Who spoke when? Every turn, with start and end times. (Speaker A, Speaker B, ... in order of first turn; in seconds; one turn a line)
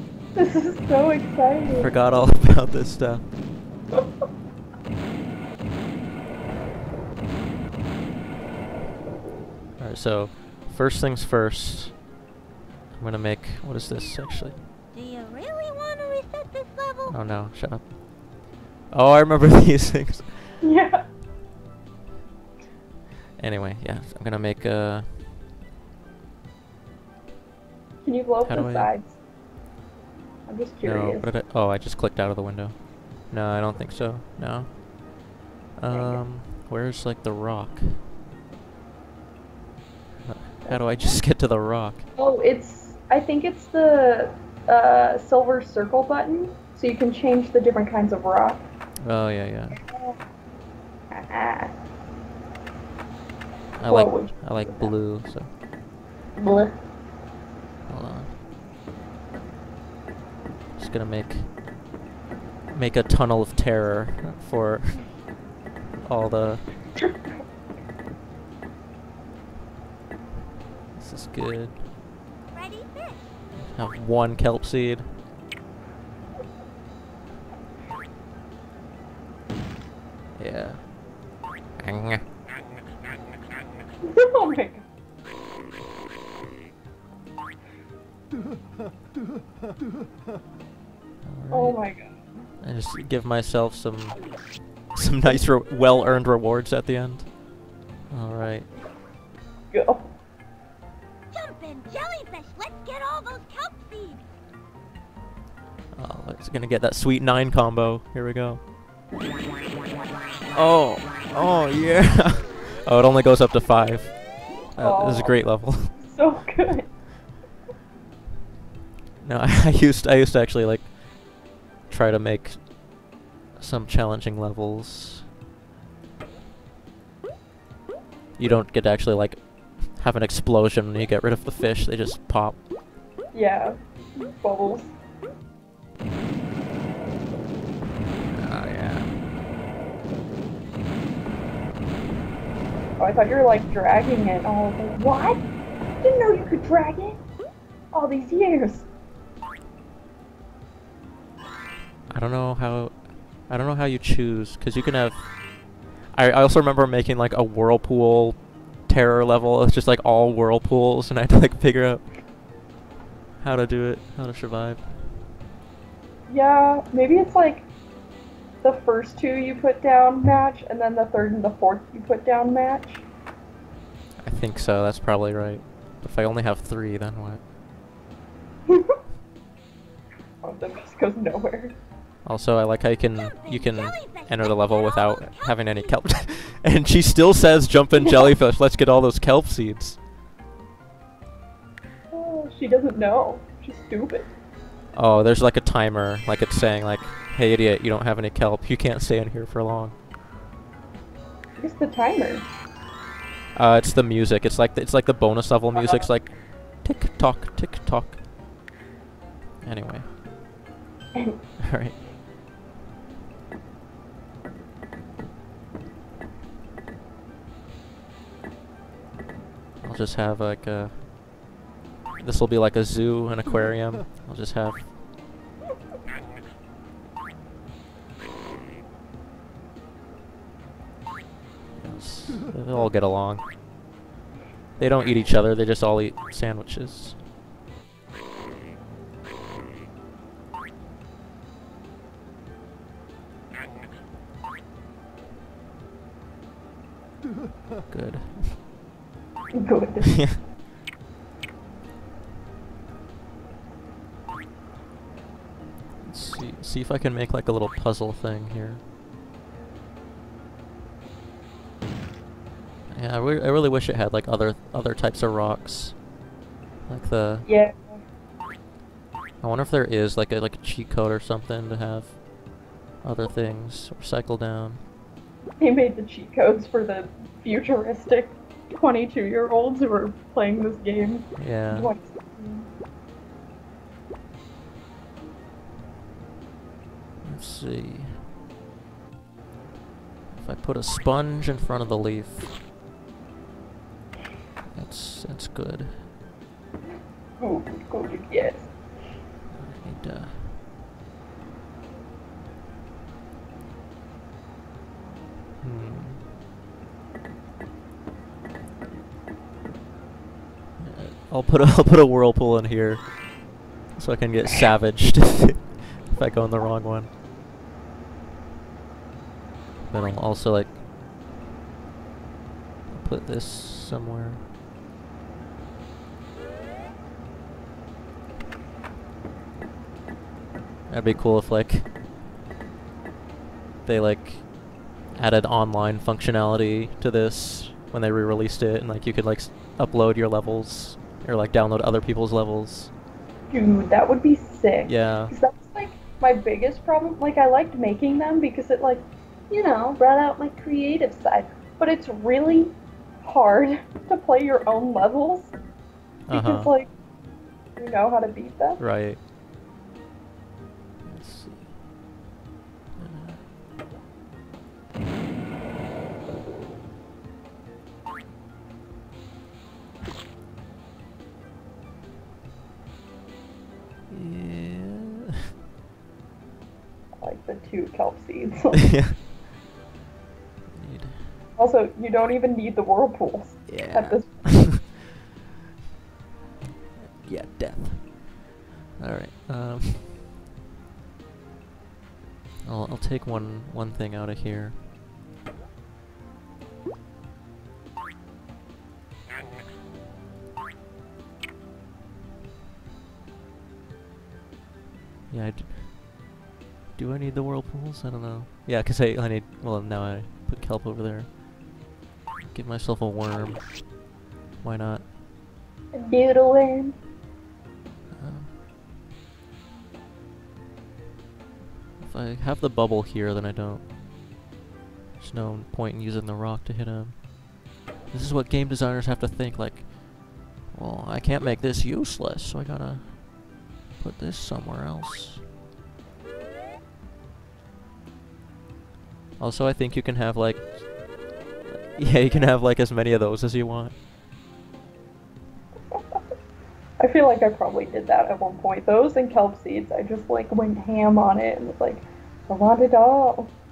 Speaker A: 0.3-1.9
Speaker B: 1.8-3.3
Speaker B: 9.8-12.0
Speaker B: 12.9-14.6
Speaker C: 14.9-17.1
Speaker B: 17.1-17.9
Speaker B: 18.9-20.6
Speaker A: 20.6-21.1
Speaker B: 23.4-25.4
Speaker A: 28.0-29.1
Speaker B: 28.4-28.9
Speaker A: 30.5-31.3
Speaker B: 30.8-34.8
Speaker B: 35.8-38.1
Speaker A: 35.9-36.2
Speaker B: 40.2-42.1
Speaker A: 40.6-41.2
Speaker A: 42.1-48.6
Speaker B: 49.0-49.8
Speaker A: 49.7-50.2
Speaker A: 51.1-51.7
Speaker B: 53.8-55.5
Speaker A: 53.9-54.9
Speaker A: 56.4-56.8
Speaker B: 57.9-58.4
Speaker B: 60.8-61.5
Speaker B: 62.7-65.2
Speaker B: 66.0-66.9
Speaker B: 71.0-71.8
Speaker C: 72.5-73.3
Speaker B: 73.6-75.1
Speaker B: 80.4-80.9
Speaker B: 81.8-82.3
Speaker A: 84.0-84.8
Speaker B: 91.2-91.8
Speaker A: 91.5-92.1
Speaker B: 92.6-94.3
Speaker B: 94.9-97.3
Speaker B: 98.1-98.7
Speaker A: 99.7-100.1
Speaker C: 101.3-104.2
Speaker B: 105.9-108.6
Speaker B: 110.5-116.0
Speaker A: 114.8-117.0
Speaker B: 119.2-120.9
Speaker B: 121.9-122.7
Speaker B: 123.6-125.3
Speaker B: 128.4-132.6
Speaker A: 133.3-134.9
Speaker B: 138.2-139.3
Speaker A: 143.0-145.4
Speaker A: 146.0-147.2
Speaker A: 147.9-148.9
Speaker B: 152.1-155.4
Speaker B: 156.1-162.1
Speaker B: 163.4-165.1
Speaker A: 166.3-167.7
Speaker A: 168.6-173.0
Speaker B: 174.2-177.4
Speaker A: 178.7-178.9
Speaker A: 180.4-181.7
Speaker B: 182.2-190.0
Speaker C: 183.2-186.0
Speaker A: 192.1-194.3
Speaker B: 194.9-199.9
Speaker A: 201.6-202.4
Speaker B: 203.6-208.2
Speaker B: 209.6-210.2
Speaker B: 211.6-212.0
Speaker B: 219.8-221.0
Speaker B: 222.2-224.9
Speaker B: 231.8-233.5
Speaker B: 234.8-237.2
Speaker B: 247.9-248.6
Speaker A: 249.5-250.3
Speaker B: 250.1-250.4
Speaker B: 256.0-258.8
Speaker B: 262.9-266.0
Speaker B: 266.9-267.5
Speaker A: 267.4-268.0
Speaker B: 269.4-272.2
Speaker B: 273.0-274.8
Speaker A: 275.6-282.7
Speaker B: 281.4-281.9
Speaker B: 287.2-288.3
Speaker B: 290.3-292.6
Speaker B: 294.7-296.1
Speaker A: 297.4-298.7
Speaker B: 299.5-300.6
Speaker B: 305.6-306.3
Speaker B: 310.8-313.1
Speaker B: 313.9-317.1
Speaker B: 319.9-320.8
Speaker B: 322.9-324.4
Speaker B: 330.9-331.9
Speaker B: 333.9-334.5
Speaker B: 335.1-342.9
Speaker A: 343.5-355.5
Speaker B: 344.9-345.3
Speaker B: 356.3-356.7
Speaker A: 356.3-356.9
Speaker A: 357.8-358.8
Speaker B: 358.8-359.2
Speaker B: 361.0-361.7
Speaker B: 363.0-363.4
Speaker B: 374.1-375.3
Speaker A: 377.2-378.9
Speaker B: 378.9-379.2
Speaker B: 380.7-381.3
Speaker A: 381.6-384.7
Speaker B: 383.7-384.9
Speaker B: 387.0-388.2
Speaker B: 388.9-390.2
Speaker B: 392.6-394.8
Speaker B: 405.3-405.9
Speaker B: 406.9-411.4
Speaker B: 412.4-413.9
Speaker B: 414.6-415.1
Speaker A: 415.9-416.9
Speaker B: 418.1-418.5
Speaker B: 422.0-423.8
Speaker B: 425.2-427.3
Speaker B: 428.1-429.9
Speaker B: 430.6-433.3
Speaker B: 434.0-435.4
Speaker B: 439.4-440.9
Speaker B: 441.7-444.0
Speaker A: 447.0-453.5